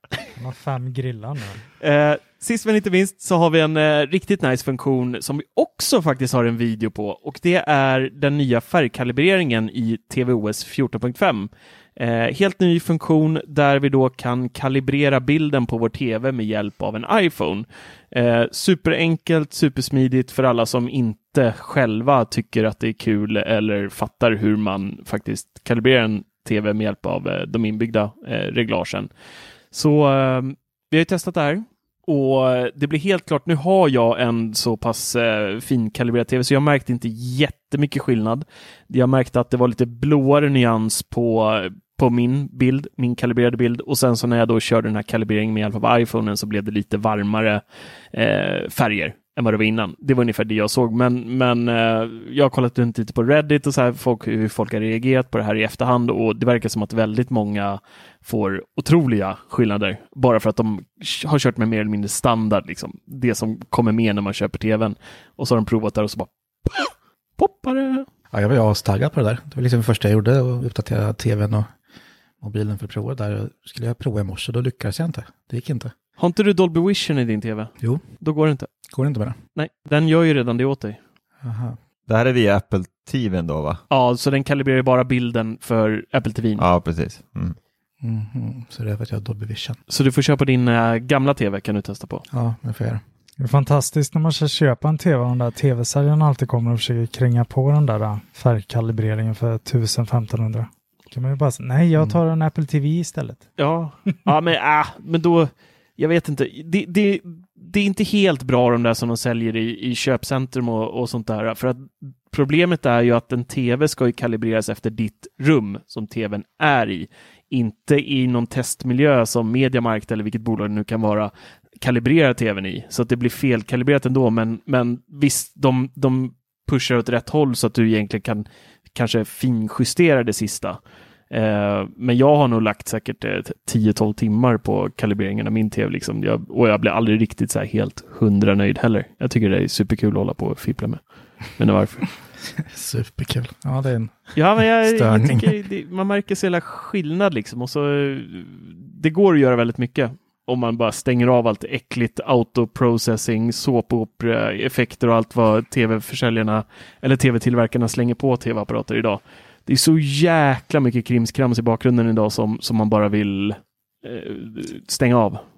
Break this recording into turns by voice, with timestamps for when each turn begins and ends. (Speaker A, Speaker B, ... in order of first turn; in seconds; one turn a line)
Speaker A: 0.4-1.6
Speaker B: 1.8-29.1
Speaker B: 29.7-68.1
Speaker C: 68.3-71.7
Speaker C: 72.4-75.9
Speaker B: 76.2-78.7
Speaker C: 78.9-79.3
Speaker B: 79.5-81.0
Speaker C: 81.4-81.8
Speaker D: 82.1-83.8
Speaker B: 83.9-86.6
Speaker D: 86.6-87.5
Speaker C: 88.0-89.8
Speaker B: 89.9-92.2
Speaker C: 92.3-93.0
Speaker A: 93.4-103.4
Speaker B: 103.6-141.0
Speaker B: 141.6-142.1
Speaker C: 142.7-145.5
Speaker B: 144.3-165.4